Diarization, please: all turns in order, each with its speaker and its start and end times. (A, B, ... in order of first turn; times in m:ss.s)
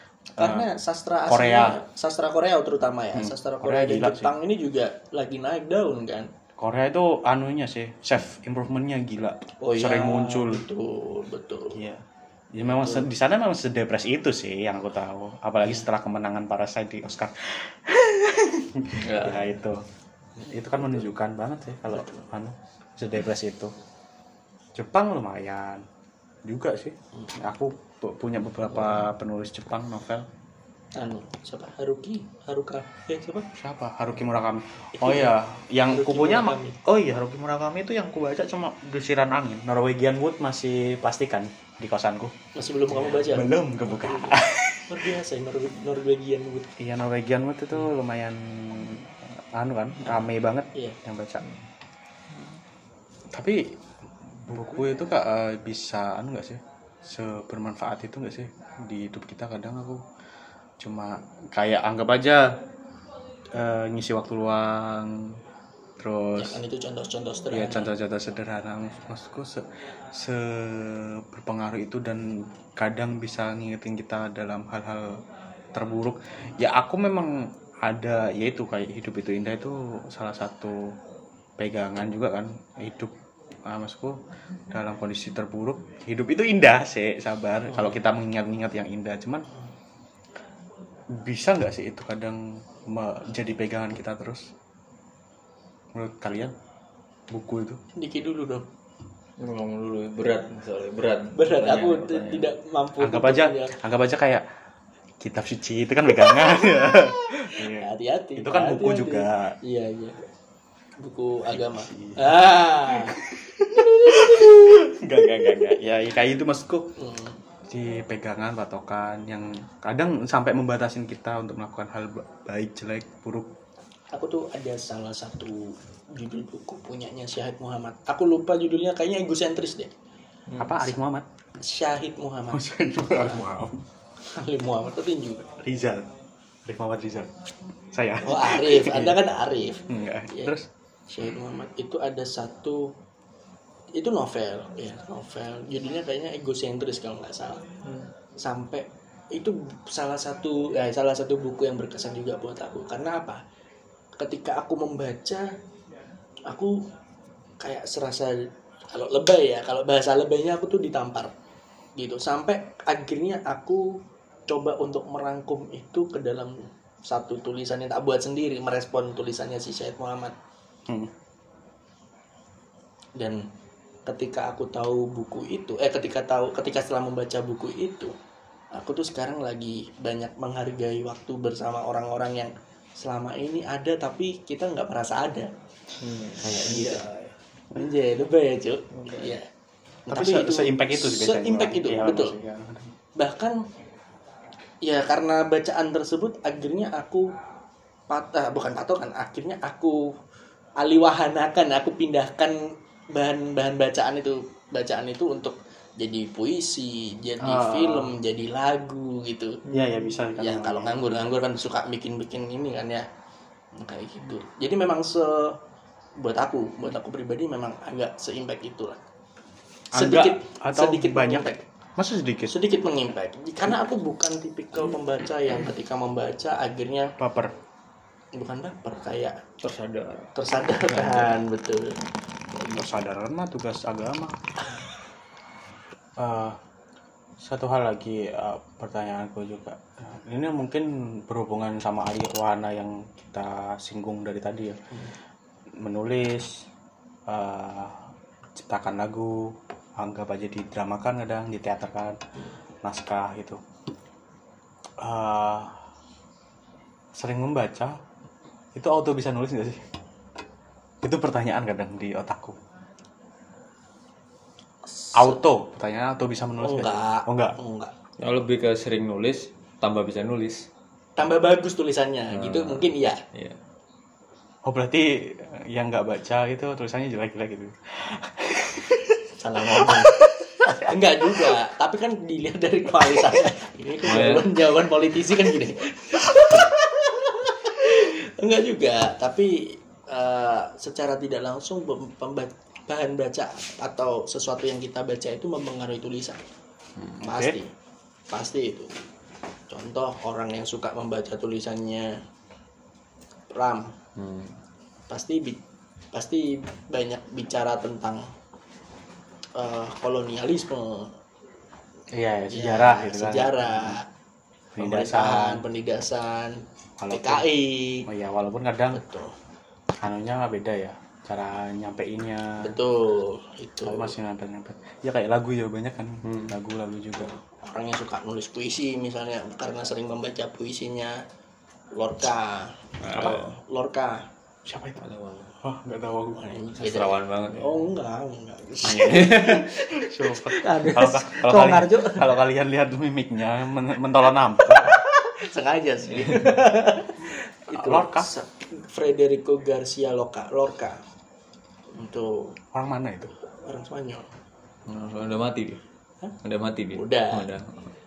0:00.4-0:06.3 A
0:00.4-0:00.6 B
0:01.3-0:01.8 B
0:03.1-0:04.3 B
0:06.6-0:10.6 B
0:09.6-0:11.8 A
0:11.7-0:12.0 B
0:12.5-0:19.8 B
0:12.6-0:13.1 A
0:19.0-0:19.4 C
0:20.5-0:23.7 B
0:24.8-0:25.8 B
0:26.4-0:30.3 B
0:30.9-0:33.5 A
0:33.6-0:42.3 B
0:35.0-0:35.3 A
0:35.9-0:36.8 A
0:42.5-0:46.7 A
0:42.9-0:45.1 B
0:46.8-0:51.4 B
0:53.3-0:53.8 B
0:54.4-1:00.0 B
1:00.8-1:02.5 B
1:03.5-1:05.4 B
1:06.0-1:06.6 B
1:06.4-1:07.9 A
1:07.5-1:15.2 B
1:15.7-1:20.9 B
1:21.6-1:23.1 B
1:23.6-1:24.2 B
1:24.7-1:29.5 B
1:31.1-1:34.5 B
1:35.9-1:36.5 B
1:37.3-1:37.8 B
1:37.9-1:38.6 A
1:39.4-1:42.5 C
1:41.3-1:43.7 A
1:43.0-1:44.4 B
1:45.2-1:49.6 B
1:47.4-1:50.2 A
1:51.0-1:53.2 A
1:51.5-1:56.9 B
1:53.7-1:54.6 A
1:57.0-1:57.4 A
1:57.7-2:03.5 B
2:04.1-2:09.9 A
2:10.6-2:11.2 B
2:11.6-2:13.4 A
2:12.5-2:13.8 B
2:14.2-2:15.5 A
2:15.6-2:16.1 B
2:16.6-2:17.3 B
2:17.9-2:19.2 B
2:18.2-2:20.5 A
2:19.9-2:20.7 B
2:21.1-2:22.9 A
2:23.9-2:27.7 A
2:28.4-2:33.4 A
2:34.2-2:35.5 A
2:36.5-2:36.8 A
2:37.6-2:41.3 A
2:42.0-2:50.3 A
2:53.2-2:53.4 A
2:54.1-2:58.1 A
2:58.7-3:05.5 A
3:06.0-3:07.1 C
3:06.4-3:07.1 A
3:07.7-3:09.5 A
3:09.0-3:09.3 C
3:10.1-3:12.4 A
3:10.1-3:12.9 B
3:13.2-3:13.6 A
3:14.8-3:17.3 A
3:18.1-3:20.1 A
3:20.8-3:29.6 A
3:27.4-3:28.1 B
3:29.7-3:31.0 B
3:30.4-3:33.0 A
3:33.7-3:35.6 A
3:36.2-3:39.0 A
3:39.9-3:42.5 B
3:39.9-3:41.6 A
3:42.5-3:47.1 A
3:47.2-3:47.5 B
3:48.3-3:49.4 A
3:49.6-3:50.3 C
3:50.3-3:52.0 A
3:50.9-3:51.3 C
3:52.5-3:52.8 A
3:52.7-3:54.4 B
3:56.2-3:56.6 B
3:57.4-4:04.8 B
4:05.8-4:06.6 B
4:07.3-4:08.0 B
4:08.6-4:12.2 B
4:12.8-4:13.6 B
4:15.0-4:15.8 B
4:17.1-4:18.0 B
4:18.7-4:19.8 B
4:21.0-4:22.6 B
4:24.9-4:25.4 A
4:25.1-4:27.6 B
4:26.6-4:27.9 A
4:28.2-4:30.7 C
4:31.2-4:33.2 A
4:32.3-4:33.6 C
4:34.6-4:41.5 B
4:39.4-4:56.4 A
4:44.0-4:44.5 C
4:57.2-4:57.6 B
4:57.2-4:57.7 A
4:58.3-4:58.9 A
4:59.7-5:02.2 A
5:03.5-5:03.9 A
5:04.2-5:04.5 C
5:05.1-5:05.6 A
5:06.1-5:08.2 A
5:09.6-5:11.1 A
5:12.1-5:14.0 B
5:12.5-5:14.0 A
5:14.8-5:15.6 B
5:14.8-5:18.0 A
5:17.0-5:17.5 B
5:18.0-5:19.0 B
5:18.9-5:19.3 A
5:20.0-5:22.7 B
5:22.6-5:24.1 A
5:23.8-5:27.3 B
5:26.2-5:26.5 C
5:27.6-5:31.2 A
5:31.9-5:34.2 A
5:33.0-5:33.5 C
5:34.6-5:35.0 B
5:35.0-5:35.5 C
5:35.6-5:36.5 B
5:36.3-5:42.4 A
5:36.8-5:37.9 C
5:38.8-5:39.7 C
5:39.7-5:45.0 B
5:44.6-5:51.0 A
5:47.7-5:48.3 B
5:51.9-5:52.6 A
5:52.7-5:53.3 B
5:53.6-5:54.2 A
5:54.9-5:55.8 C
5:56.4-5:57.8 C
5:56.9-5:57.5 A